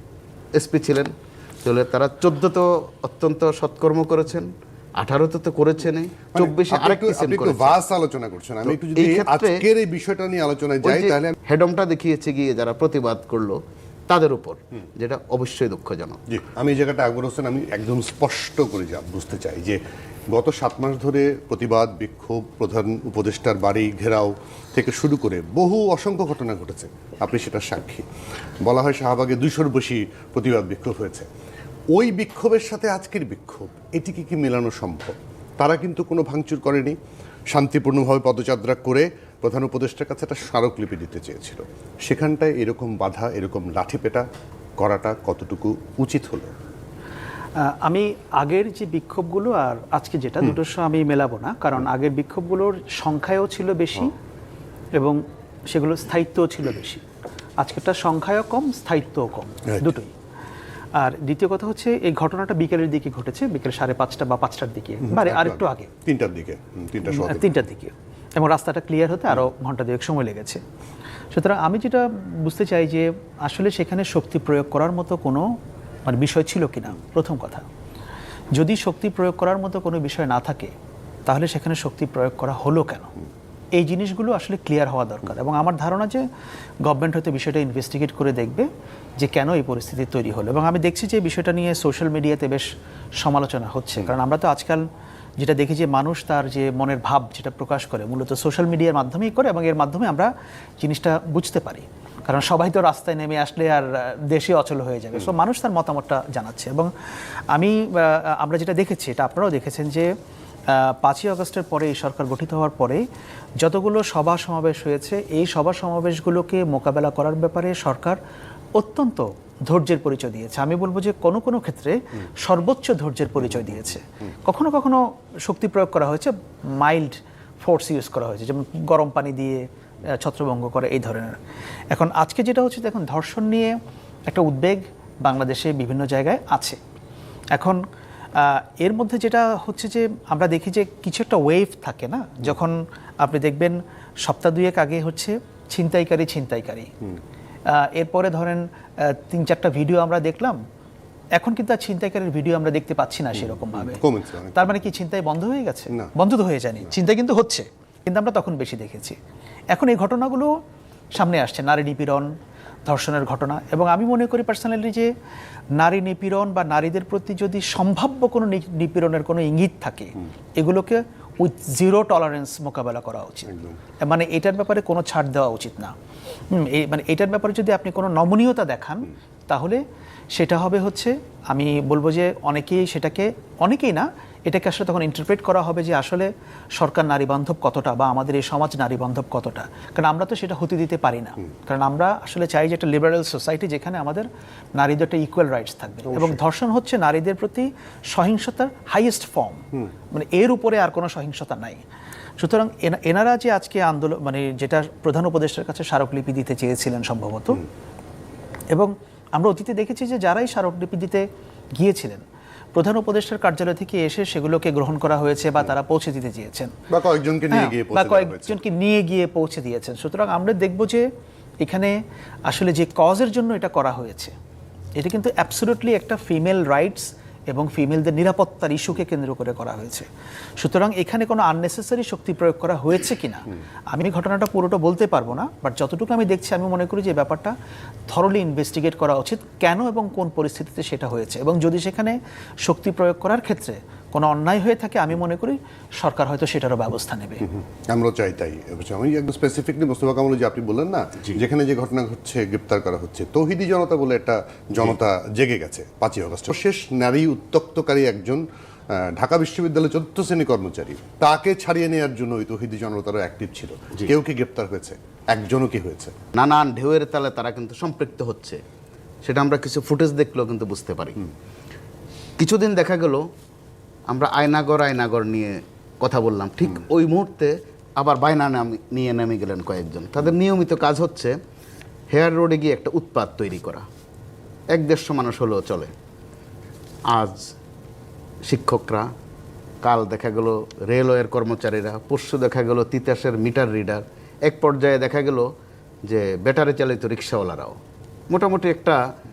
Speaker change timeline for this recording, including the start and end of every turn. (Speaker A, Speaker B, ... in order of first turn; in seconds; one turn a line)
Speaker A: 0.6-7.8
Speaker B: 6.3-11.3
Speaker A: 8.7-9.7
Speaker A: 10.8-16.2
Speaker B: 16.3-19.8
Speaker B: 20.3-28.1
Speaker B: 28.6-31.3
Speaker B: 31.9-37.0
Speaker B: 37.5-44.3
Speaker B: 44.8-46.5
Speaker C: 47.6-54.1
Speaker C: 55.0-57.0
Speaker C: 57.6-60.1
Speaker C: 61.0-65.9
Speaker B: 65.1-67.5
Speaker C: 67.0-70.6
Speaker C: 71.3-75.5
Speaker C: 76.1-77.7
Speaker C: 78.5-80.7
Speaker C: 81.3-83.1
Speaker C: 83.8-86.2
Speaker C: 86.8-94.9
Speaker C: 95.4-106.9
Speaker C: 107.5-110.1
Speaker C: 110.7-113.0
Speaker C: 113.6-118.2
Speaker C: 118.8-131.4
Speaker C: 131.9-133.8
Speaker C: 134.3-136.8
Speaker C: 137.5-137.8
Speaker C: 138.3-146.9
Speaker C: 147.7-150.6
Speaker C: 151.4-154.0
Speaker B: 153.4-154.9
Speaker C: 154.6-159.2
Speaker C: 159.7-160.5
Speaker C: 161.2-162.3
Speaker C: 162.9-165.1
Speaker C: 165.8-173.5
Speaker B: 173.5-173.8
Speaker C: 174.0-175.9
Speaker C: 176.5-179.8
Speaker C: 180.3-201.8
Speaker C: 202.4-207.6
Speaker C: 208.7-211.2
Speaker C: 211.8-212.2
Speaker C: 212.8-216.7
Speaker B: 216.9-218.6
Speaker C: 217.5-221.1
Speaker C: 221.6-224.3
Speaker C: 225.0-230.1
Speaker C: 230.6-237.5
Speaker C: 238.1-247.4
Speaker B: 247.5-258.4
Speaker B: 259.0-266.1
Speaker A: 266.3-268.6
Speaker A: 269.2-271.2
Speaker A: 272.4-273.2
Speaker A: 274.1-281.4
Speaker A: 282.1-283.9
Speaker A: 284.7-285.9
Speaker A: 287.1-287.5
Speaker A: 288.5-289.1
Speaker A: 289.8-295.5
Speaker A: 296.1-297.8
Speaker A: 298.3-299.0